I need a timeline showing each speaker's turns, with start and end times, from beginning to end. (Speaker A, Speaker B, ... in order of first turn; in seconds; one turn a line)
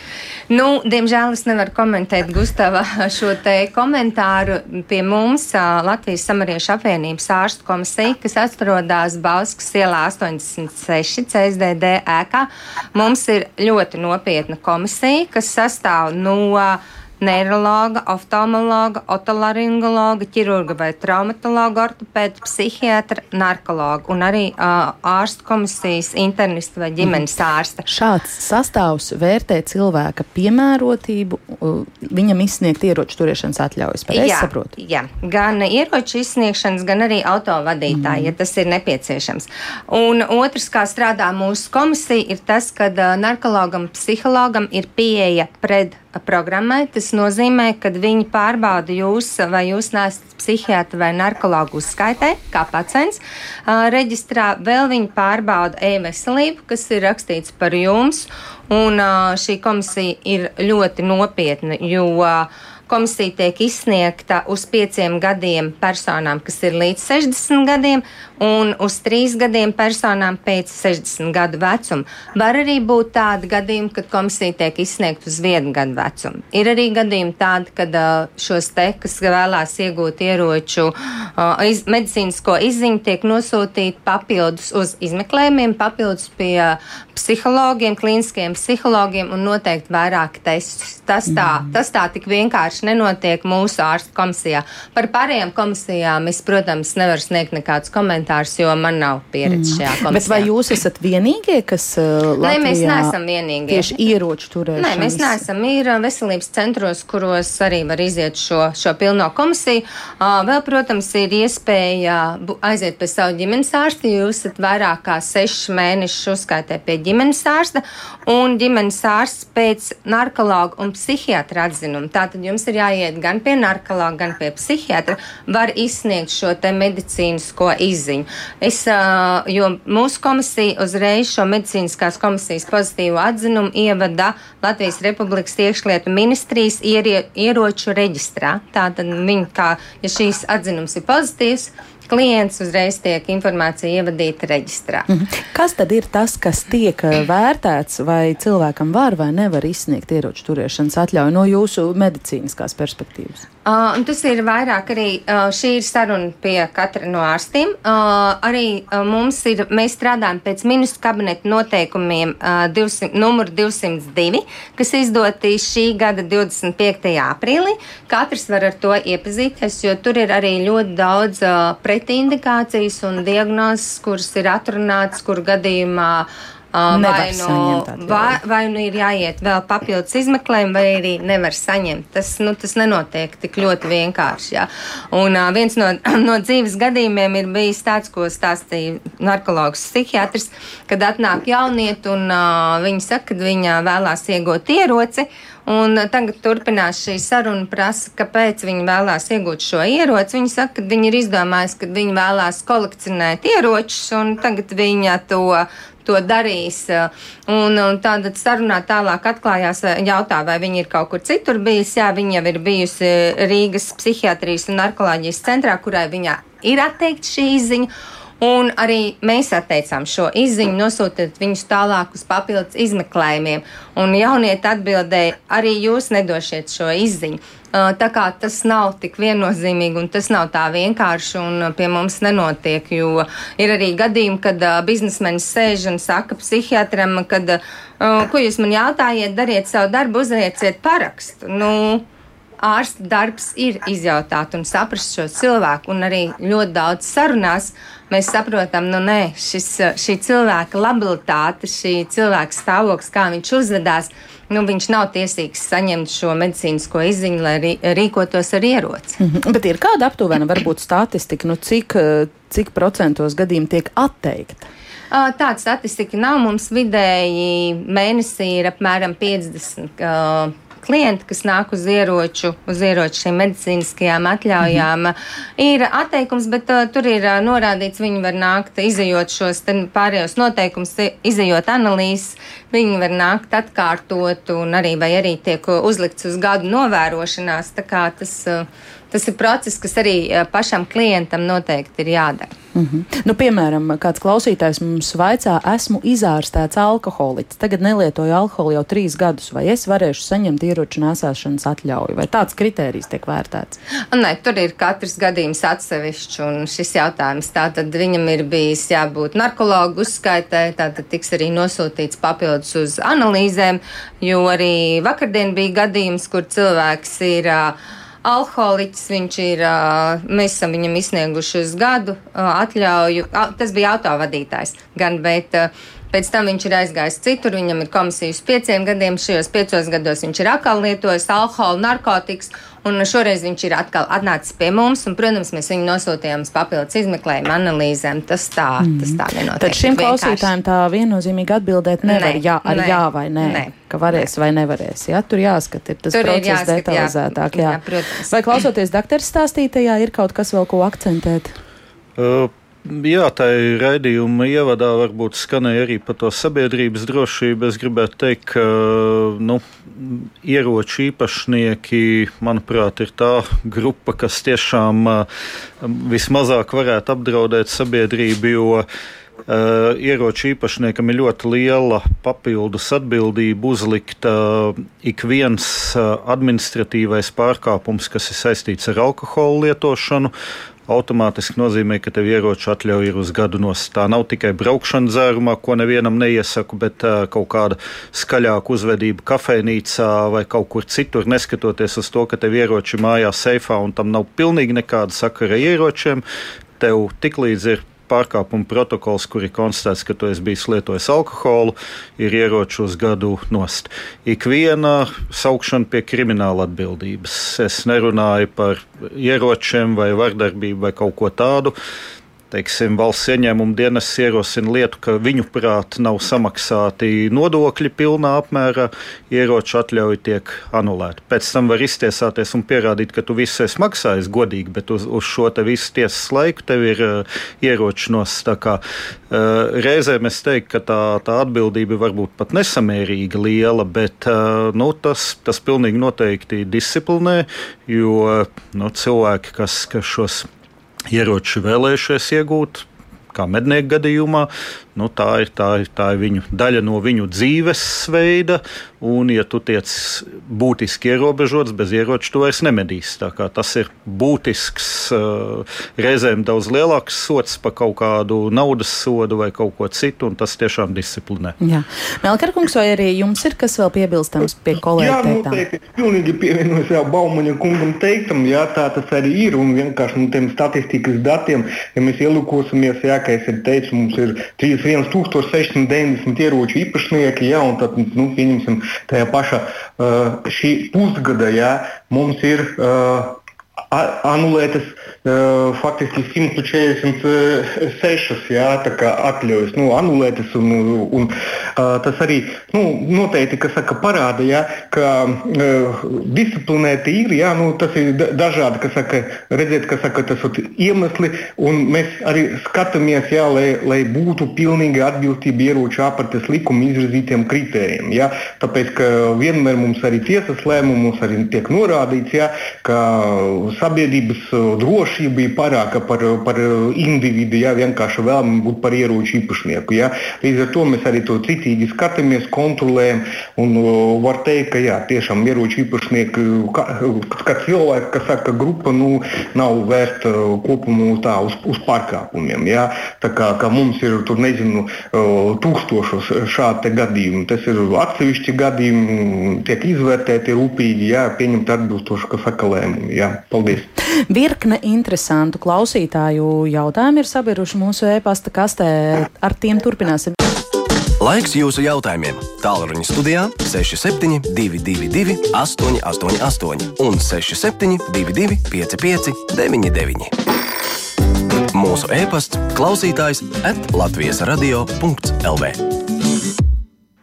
Speaker A: 0.5-27.8
Speaker B: 27.9-34.7
Speaker A: 34.1-100.5
Speaker B: 37.9-38.3
Speaker B: 91.3-91.7
Speaker B: 99.5-103.1
Speaker A: 102.4-104.0
Speaker B: 103.7-105.4
Speaker A: 104.8-145.1
Speaker B: 145.1-153.4
Speaker A: 153.7-217.9
Speaker B: 176.9-178.4
Speaker A: 218.4-242.1
Speaker A: 242.6-259.2
Speaker B: 259.2-264.6
Speaker A: 265.1-292.5
Speaker B: 292.7-303.8
Speaker A: 304.1-340.5
Speaker B: 338.8-351.5
Speaker A: 342.0-343.7
Speaker A: 346.1-348.3
Speaker C: 352.2-365.2
Speaker C: 365.8-368.8
Speaker C: 369.5-380.3
Speaker C: 380.9-396.2
Speaker C: 396.8-411.7
Speaker C: 412.5-440.5
Speaker C: 441.1-461.6
Speaker B: 461.6-465.6
Speaker D: 465.0-483.4
Speaker D: 483.9-543.9
Speaker B: 544.3-550.4
Speaker E: 551.2-560.3
Speaker E: 561.7-565.8